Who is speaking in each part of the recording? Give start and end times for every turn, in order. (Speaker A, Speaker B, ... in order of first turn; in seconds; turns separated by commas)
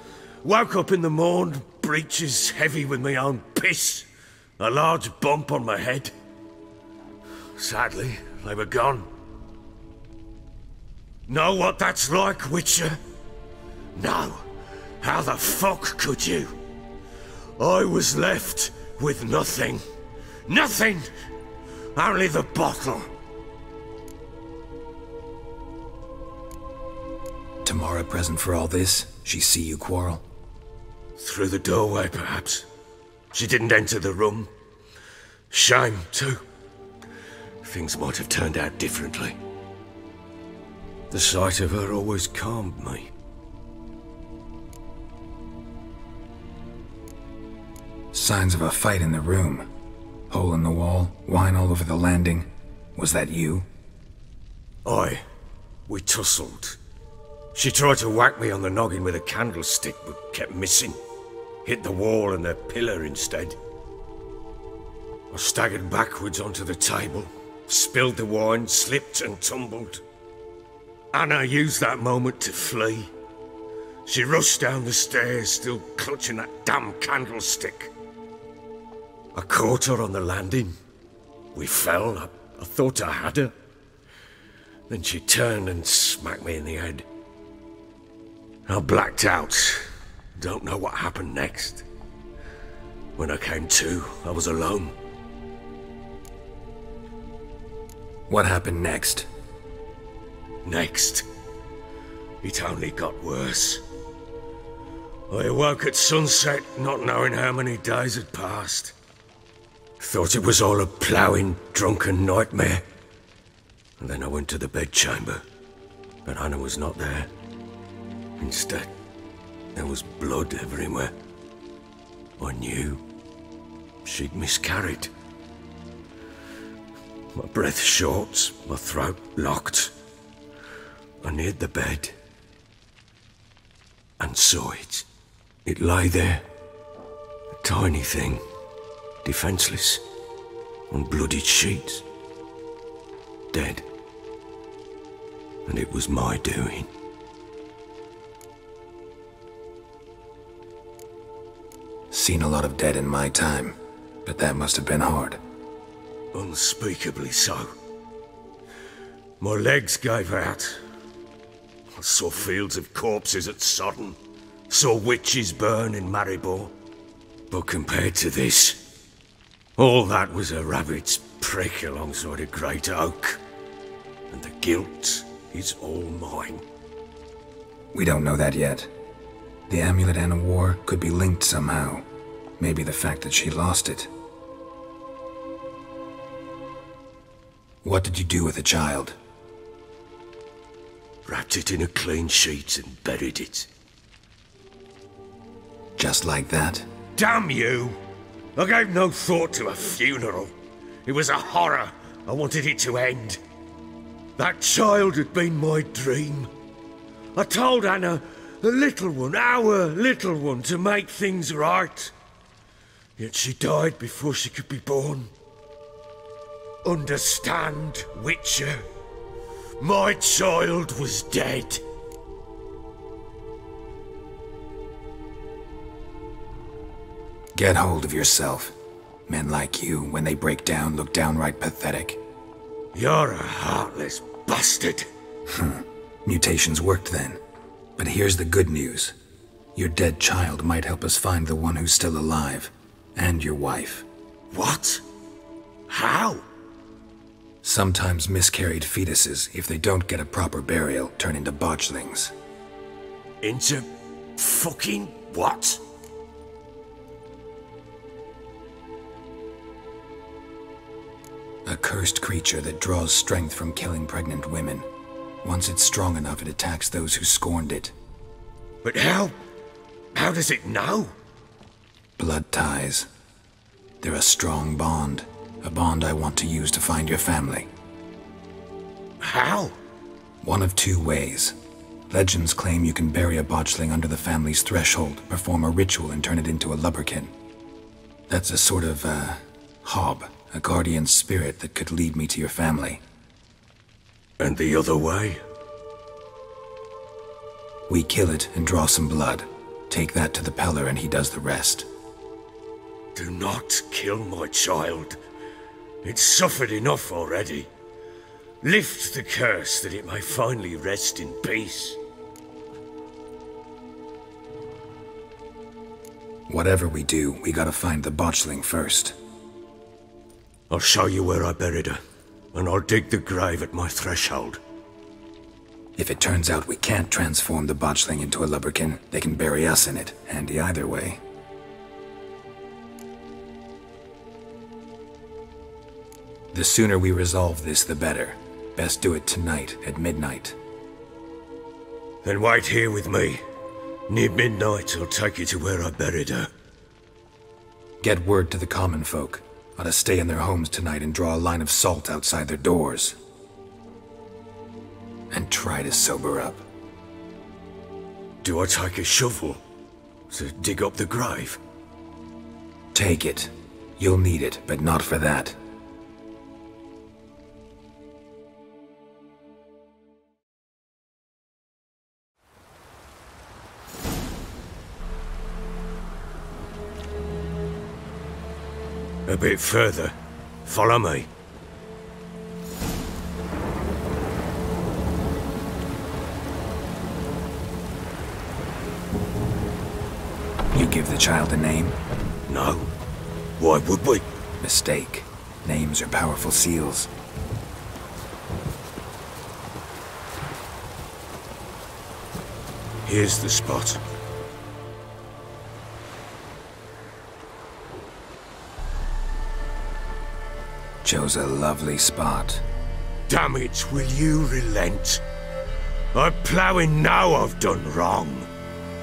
Speaker A: 0.4-4.1, Speaker A: 4.6-6.1, Speaker A: 7.6-9.1, Speaker A: 11.3-13.0, Speaker A: 13.9-14.5, Speaker A: 15.0-16.6, Speaker A: 17.6-19.8, Speaker A: 20.5-21.1, Speaker A: 21.9-23.1, Speaker B: 27.6-30.2, Speaker A: 31.2-32.7, Speaker A: 33.3-34.5, Speaker A: 35.5-36.4, Speaker A: 37.6-39.4, Speaker A: 41.1-43.1, Speaker B: 48.1-49.7, Speaker B: 50.3-53.7, Speaker A: 54.9-55.2, Speaker A: 55.9-56.8, Speaker A: 57.5-61.0, Speaker A: 61.6-63.6, Speaker A: 65.3-70.0, Speaker A: 71.1-73.1, Speaker A: 74.1-77.9, Speaker A: 79.3-80.8, Speaker A: 81.5-83.5, Speaker A: 84.9-87.1, Speaker A: 88.7-91.9, Speaker A: 93.2-95.0, Speaker B: 98.3-99.3, Speaker A: 100.7-101.3, Speaker A: 102.4-103.8, Speaker A: 105.3-109.0, Speaker A: 110.0-112.8, Speaker A: 114.0-115.5, Speaker A: 116.2-117.3, Speaker A: 118.4-118.9, Speaker A: 119.8-121.1, Speaker A: 122.4-123.0, Speaker A: 124.0-125.1, Speaker A: 127.3-129.9, Speaker A: 131.2-132.2, Speaker A: 134.2-135.1, Speaker A: 135.7-136.4, Speaker A: 137.6-138.4, Speaker A: 139.2-140.0, Speaker A: 140.9-142.0, Speaker A: 143.5-143.9, Speaker A: 145.7-146.9, Speaker B: 152.1-155.4, Speaker A: 156.3-157.7, Speaker A: 159.4-160.8, Speaker A: 162.0-164.2, Speaker A: 164.7-166.7, Speaker A: 167.5-168.8, Speaker A: 169.8-173.4, Speaker A: 174.3-176.6, Speaker B: 177.9-178.9, Speaker B: 179.7-182.1, Speaker B: 182.6-184.1, Speaker B: 187.8-189.2, Speaker A: 191.3-193.7, Speaker B: 196.0-196.9, Speaker A: 197.2-198.0, Speaker A: 198.6-200.5, Speaker A: 201.1-203.4, Speaker A: 204.4-206.5, Speaker A: 207.3-212.1, Speaker A: 213.2-215.3, Speaker A: 216.8-218.8, Speaker A: 219.8-221.8, Speaker B: 227.6-228.8, Speaker B: 229.3-232.2, Speaker A: 232.9-235.1, Speaker B: 235.5-237.4, Speaker B: 238.0-239.2, Speaker B: 239.7-244.1, Speaker A: 244.5-245.0, Speaker A: 245.9-246.4, Speaker B: 247.6-252.3, Speaker A: 253.4-255.8, Speaker B: 261.7-264.9, Speaker B: 265.4-267.9, Speaker A: 268.8-269.4, Speaker A: 270.1-271.1, Speaker B: 272.2-273.1, Speaker B: 274.0-277.7, Speaker A: 279.2-279.8, Speaker B: 280.4-281.6, Speaker B: 282.1-287.3, Speaker B: 288.3-293.0, Speaker A: 294.4-295.4, Speaker B: 297.9-301.9, Speaker A: 303.1-305.2, Speaker A: 306.0-307.7, Speaker A: 308.6-312.0, Speaker B: 316.5-319.2, Speaker A: 320.7-322.0, Speaker A: 322.5-324.6, Speaker B: 326.0-331.2, Speaker B: 336.5-340.6, Speaker A: 342.2-343.4, Speaker A: 344.1-346.5, Speaker B: 348.0-353.2, Speaker B: 355.3-356.6, Speaker A: 358.4-359.6, Speaker A: 360.3-361.6, Speaker B: 362.9-365.6, Speaker A: 379.3-381.3, Speaker B: 390.7-391.9, Speaker A: 392.5-392.9, Speaker A: 393.6-394.3, Speaker B: 394.6-397.1, Speaker A: 403.0-404.0, Speaker B: 411.0-412.6, Speaker A: 413.3-415.2, Speaker A: 416.1-418.5